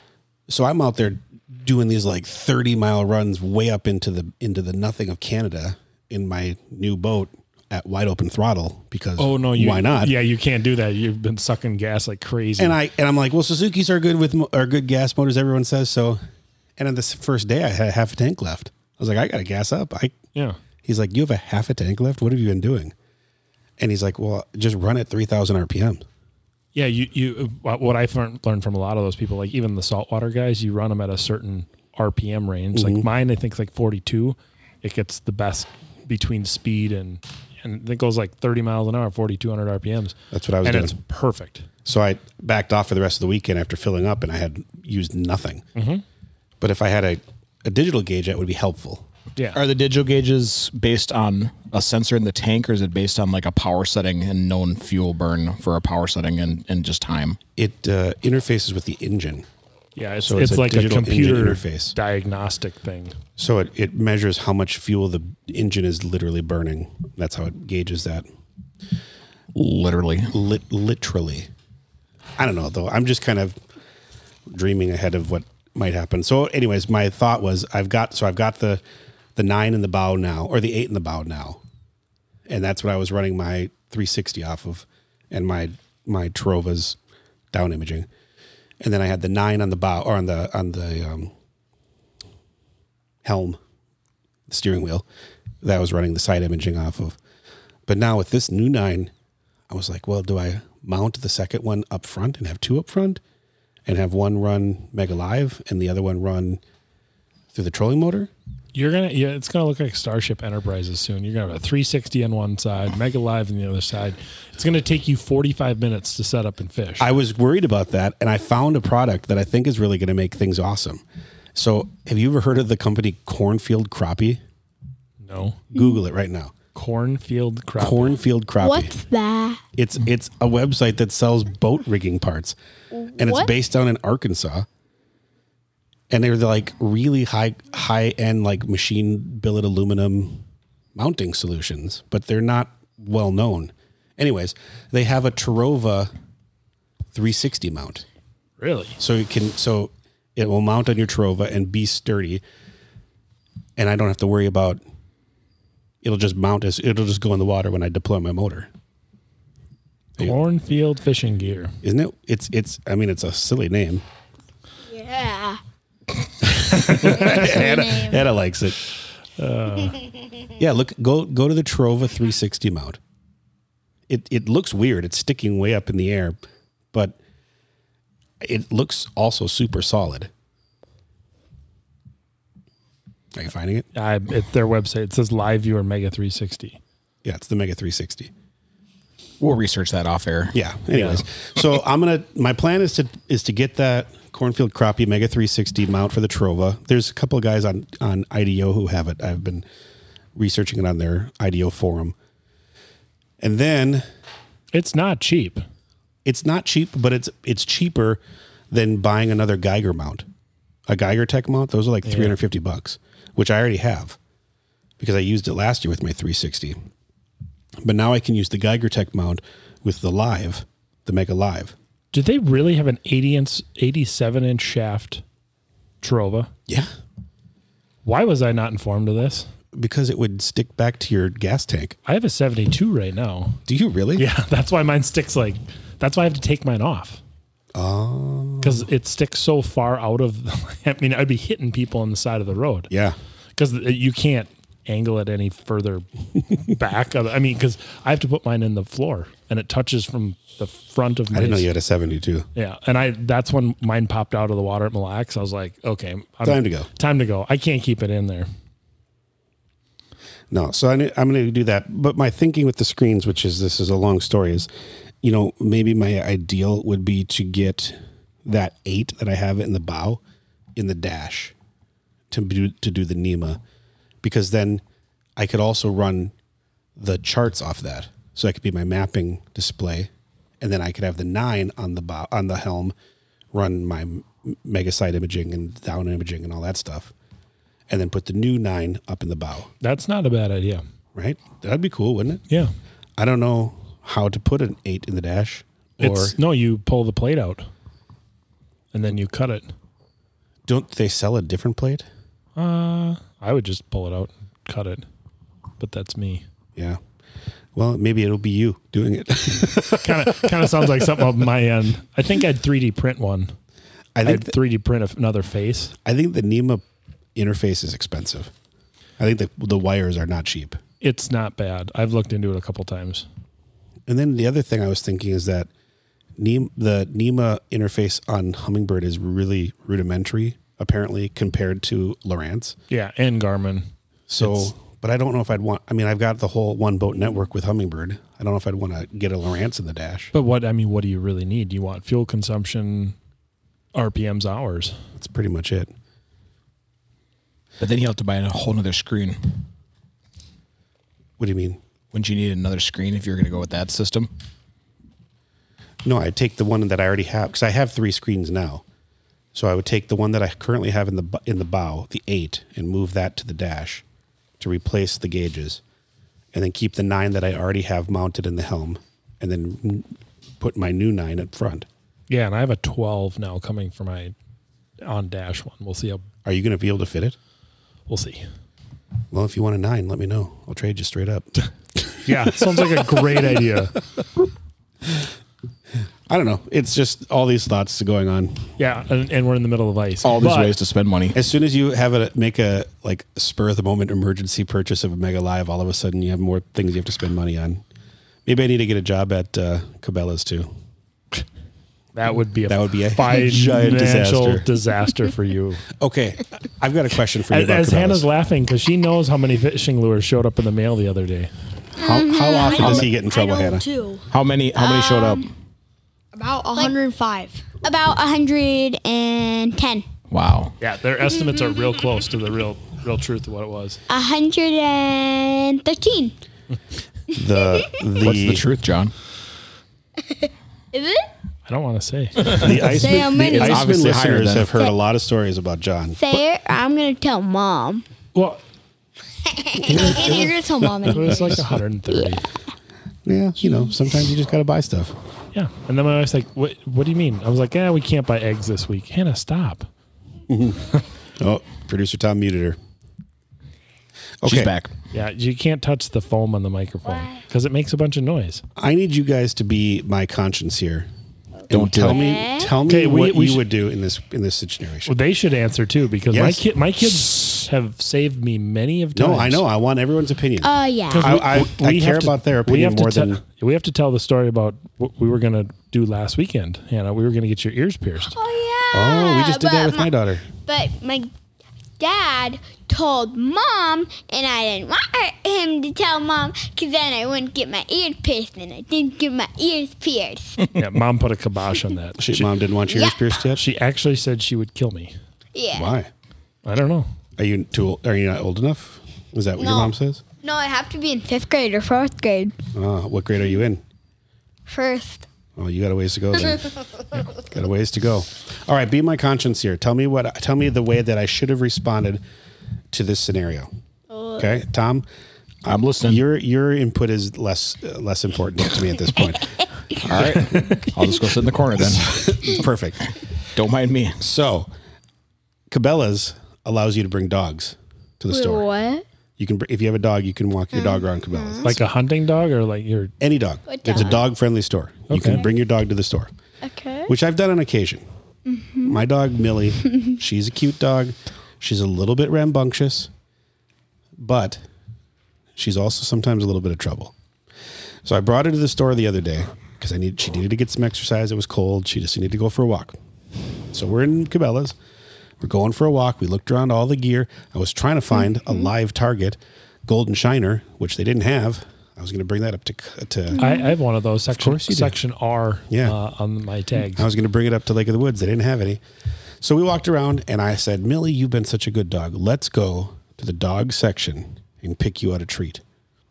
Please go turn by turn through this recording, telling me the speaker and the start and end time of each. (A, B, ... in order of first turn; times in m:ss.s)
0:00.5-0:10.1 A
0:09.2-0:12.8 B
0:12.6-0:16.2 A
0:16.8-0:20.1 A
0:20.8-0:22.9 A
0:23.8-0:26.0 A
0:26.7-0:41.7 B
0:32.7-0:33.1 A
0:40.3-0:41.0 A
0:41.8-0:45.6 A
0:45.7-0:46.0 B
0:46.6-0:49.0 A
0:49.5-0:57.4 C
0:57.6-0:59.4 A
1:00.0-1:03.2 B
1:00.2-1:01.9 A
1:03.4-1:08.2 A
1:09.5-1:10.4 C
1:10.3-1:11.5 A
1:12.4-1:13.6 A
1:14.5-1:18.8 A
1:19.4-1:21.6 A
1:22.5-1:27.0 A
1:27.5-1:28.1 A
1:28.8-1:31.3 A
1:33.2-1:33.6 A
1:34.5-1:35.0 A
1:35.6-1:37.2 A
1:37.9-1:39.1 A
1:39.7-1:43.2 A
1:43.8-1:46.6 A
1:47.5-1:48.3 A
1:48.7-1:57.1 B
1:57.0-2:01.0 A
2:01.5-2:04.4 A
2:05.2-2:05.6 B
2:05.7-2:06.5 A
2:05.7-2:06.0 D
2:06.7-2:08.2 B
2:07.8-2:08.9 A
2:08.6-2:09.6 D
2:09.8-2:12.6 A
2:12.9-2:13.5 D
2:13.2-2:14.7 A
2:16.1-2:20.4 A
2:20.9-2:26.1 A
2:27.1-2:28.0 A
2:28.6-2:29.0 B
2:29.0-2:32.4 A
2:33.8-2:34.8 A
2:36.0-2:38.7 A
2:40.2-2:41.8 B
2:41.8-2:44.0 A
2:44.8-2:45.6 D
2:46.5-2:47.5 B
2:46.9-2:48.8 A
2:47.4-2:48.2 E
2:49.4-2:50.0 B
2:50.6-2:53.0 A
2:54.1-2:56.4 A
2:56.9-2:57.2 A
2:58.4-3:00.3 A
3:03.3-3:03.9 A
3:03.9-3:06.8 B
3:07.2-3:08.3 A
3:09.4-3:11.2 C
3:10.5-3:19.6 A
3:20.3-3:22.1 A
3:23.4-3:24.0 A
3:24.7-3:25.6 B
3:26.2-3:30.2 A
3:30.9-3:34.2 A
3:32.0-3:32.4 B
3:35.0-3:36.8 A
3:37.8-3:41.7 A
3:42.1-3:45.2 B
3:46.0-3:46.5 B
3:48.0-3:49.5 B
3:49.7-3:52.0 A
3:52.0-3:53.6 B
3:53.7-3:54.2 A
3:54.2-3:57.2 B
3:57.7-3:58.8 A
3:58.6-4:02.9 B
4:02.9-4:03.2 A
4:03.6-4:11.7 B
4:11.3-4:12.5 A
4:12.5-4:18.5 B
4:16.4-4:16.9 A
4:20.5-4:24.7 A
4:25.2-4:30.2 A
4:30.8-4:31.5 A
4:32.3-4:33.6 A
4:34.2-4:34.8 A
4:35.4-4:36.3 A
4:37.0-4:42.9 A
4:43.5-4:47.1 A
4:47.9-4:49.7 A
4:49.8-4:50.8 B
4:51.1-4:52.4 A
4:53.2-4:56.3 A
4:56.0-4:57.7 B
4:58.9-4:59.7 B
5:00.7-5:02.0 A
5:02.6-5:05.0 B
5:05.8-5:06.4 B
5:07.7-5:10.3 A
5:09.9-5:13.5 B
5:14.1-5:14.5 A
5:14.2-5:15.9 B
5:16.0-5:16.8 A
5:17.3-5:18.5 A
5:19.2-5:20.8 A
5:21.0-5:23.2 B
5:24.1-5:25.7 A
5:26.4-5:32.8 A
5:32.9-5:33.9 B
5:34.3-5:40.3 A
5:34.4-5:34.7 B
5:40.3-5:43.2 B
5:43.9-5:45.0 B
5:45.2-5:45.9 A
5:47.8-5:49.6 C
5:51.4-5:51.8 A
5:52.1-5:54.3 C
5:56.0-5:58.8 A
5:59.5-6:04.0 A
6:04.6-6:05.8 A
6:06.5-6:11.9 A
6:12.3-6:14.3 B
6:15.0-6:16.3 B
6:16.4-6:17.4 A
6:18.1-6:18.5 B
6:19.3-6:22.2 A
6:22.2-6:24.0 B
6:26.3-6:28.7 A
6:28.8-6:30.8 B
6:30.2-6:31.4 C
6:31.3-6:37.8 A
6:38.4-6:40.7 A
6:42.1-6:45.8 B
6:42.7-6:44.6 A
6:46.0-6:48.3 A
6:47.5-6:51.5 B
6:52.0-6:53.8 A
6:52.0-6:53.0 D
6:52.5-6:54.3 E
6:54.3-6:55.5 C
6:54.7-6:55.5 D
6:56.3-6:57.6 E
6:57.8-7:00.0 D
7:00.3-7:00.7 C
7:00.8-7:04.0 B
7:04.1-7:06.4 D
7:07.3-7:08.6 A
7:08.2-7:09.1 C
7:10.3-7:11.3 D
7:11.7-7:12.9 B
7:12.4-7:16.2 A
7:12.8-7:13.9 E
7:13.5-7:14.7 C
7:16.1-7:18.0 D
7:18.3-7:18.6 B
7:19.5-7:20.2 D
7:19.8-7:21.6 A
7:19.9-7:20.2 B
7:19.9-7:21.6 E
7:21.0-7:22.4 B
7:23.2-7:25.1 A
7:25.5-7:29.9 B
7:30.5-7:32.8 A
7:34.4-7:34.7 A
7:34.4-7:34.9 C
7:35.1-7:38.6 B
7:38.8-7:41.1 A
7:41.7-7:45.1 A
7:41.7-7:42.3 C
7:42.1-7:42.7 D
7:42.8-7:43.6 B
7:45.0-7:49.6 B
7:46.3-7:46.6 A
7:49.1-7:53.4 A
7:50.6-7:51.4 D
7:51.1-7:58.4 B
7:58.3-8:00.1 D
7:58.9-8:00.4 A
8:00.6-8:01.3 D
8:02.0-8:10.7 D
8:10.7-8:12.5 B
8:12.2-8:13.6 A
8:12.9-8:13.3 D
8:13.5-8:15.1 B
8:15.5-8:15.9 D
8:15.7-8:16.1 A
8:16.6-8:17.1 B
8:17.4-8:20.2 A
8:19.6-8:22.6 D
8:22.7-8:23.8 A
8:24.7-8:25.2 D
8:25.6-8:26.7 A
8:27.3-8:32.2 A
8:32.9-8:33.7 A
8:34.1-8:34.6 D
8:34.4-8:35.0 A
8:35.6-8:36.2 C
8:35.7-8:39.5 A
8:40.0-8:42.2 C
8:41.8-8:43.1 A
8:43.5-8:44.2 C
8:44.2-8:44.7 A
8:45.7-8:48.7 A
8:48.3-8:49.0 D
8:49.4-8:51.8 A
8:50.7-8:51.7 D
8:51.6-8:53.1 B
8:53.2-8:56.3 A
8:53.7-8:54.2 D
8:55.1-8:55.4 B
8:56.6-8:57.1 D
8:57.1-8:58.0 A
8:58.4-8:59.0 D
8:58.8-9:03.1 A
9:04.2-9:04.6 A
9:05.6-9:07.1 A
9:08.0-9:13.0 A
9:13.7-9:14.7 A
9:15.4-9:23.4 A
9:23.3-9:23.7 D
9:23.4-9:27.1 B
9:24.4-9:25.0 A
9:25.7-9:26.0 A
9:26.9-9:28.8 A
9:29.4-9:35.6 A